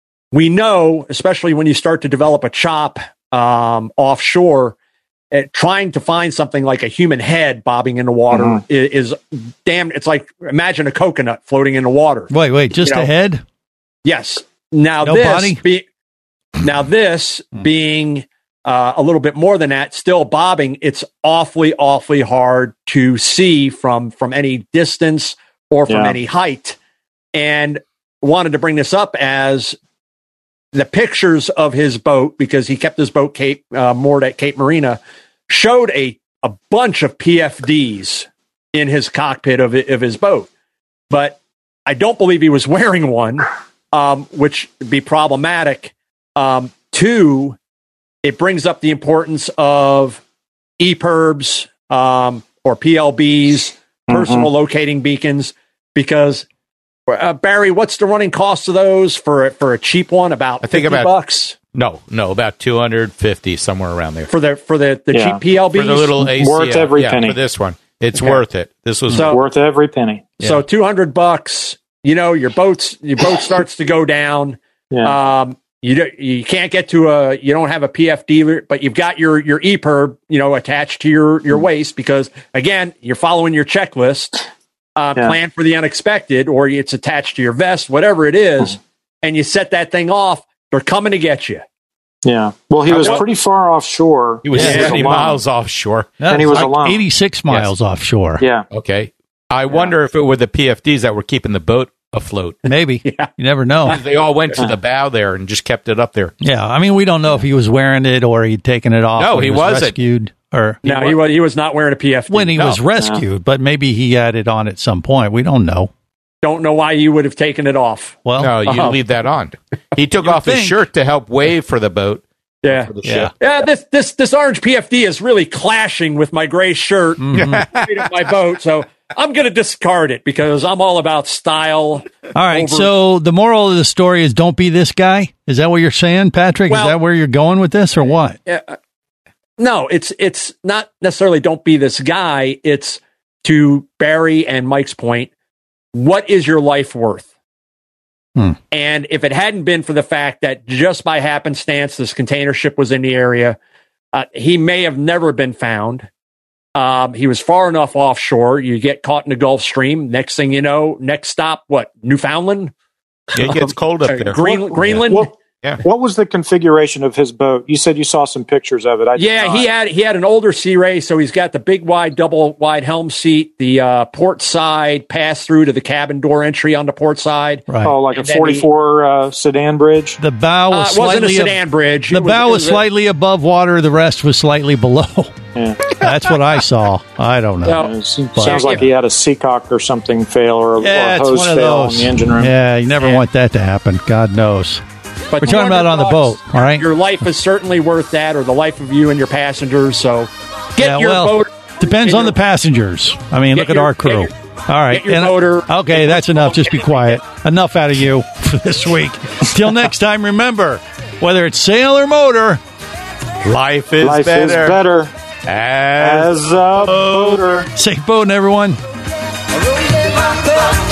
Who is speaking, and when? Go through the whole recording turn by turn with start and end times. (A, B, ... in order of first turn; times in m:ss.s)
0:00.3-0:04.7 A
0:05.3-0:13.1 A
0:08.3-0:08.6 B
0:12.3-0:13.4 C
0:14.0-0:15.8 A
0:15.0-0:15.6 C
0:16.6-0:26.8 A
0:25.9-0:26.1 B
0:27.3-0:29.8 A
0:30.7-0:40.5 A
0:41.1-0:47.6 A
0:48.2-0:50.2 A
0:50.8-0:56.4 A
0:54.1-0:54.5 B
0:57.1-1:01.5 A
1:00.6-1:01.1 D
1:01.7-1:04.3 D
1:04.3-1:06.2 A
1:05.1-1:05.4 B
1:05.7-1:09.3 D
1:06.2-1:07.4 B
1:08.1-1:08.4 A
1:09.1-1:09.4 A
1:09.2-1:10.3 B
1:10.4-1:24.4 A
1:25.0-1:31.6 A
1:32.2-1:35.4 B
1:32.9-1:33.2 A
1:32.9-1:33.2 D
1:34.4-1:36.6 D
1:34.5-1:34.9 C
1:34.6-1:35.1 A
1:36.2-1:38.4 C
1:36.3-1:37.0 B
1:38.4-1:38.7 B
1:38.7-1:42.6 D
1:42.6-1:44.0 C
1:43.0-1:43.3 A
1:43.9-1:46.3 D
1:46.4-1:50.9 C
1:49.1-1:50.0 D
1:50.8-1:52.8 A
1:50.8-1:51.1 D
1:52.3-1:55.9 C
1:53.0-1:53.2 B
1:56.4-1:59.0 A
1:58.2-1:58.6 C
1:58.4-2:03.3 D
2:00.2-2:00.8 C
2:02.6-2:12.9 A
2:03.0-2:03.3 C
2:07.2-2:07.6 C
2:07.3-2:08.0 D
2:12.3-2:18.4 C
2:16.7-2:17.0 A
2:18.5-2:18.8 A
2:19.6-2:25.3 A
2:25.9-2:27.3 A
2:28.7-2:33.6 A
2:34.1-2:36.1 A
2:36.8-2:42.7 A
2:43.3-2:45.1 D
2:43.3-2:45.3 A
2:44.4-2:49.7 B
2:49.2-2:58.7 A
2:57.7-2:57.9 C
2:57.8-3:00.2 B
3:00.2-3:01.6 C
3:00.7-3:02.8 A
3:02.1-3:05.3 C
3:05.5-3:05.8 B
3:05.9-3:08.8 C
3:07.6-3:08.8 A
3:07.6-3:12.5 B
3:10.8-3:14.8 C
3:15.3-3:22.4 A
3:15.4-3:16.9 C
3:20.8-3:32.6 C
3:23.5-3:24.3 A
3:24.9-3:27.2 A
3:33.4-3:34.8 D
3:34.0-3:35.1 B
3:35.4-3:37.4 D
3:36.0-3:37.7 B
3:37.7-3:38.8 C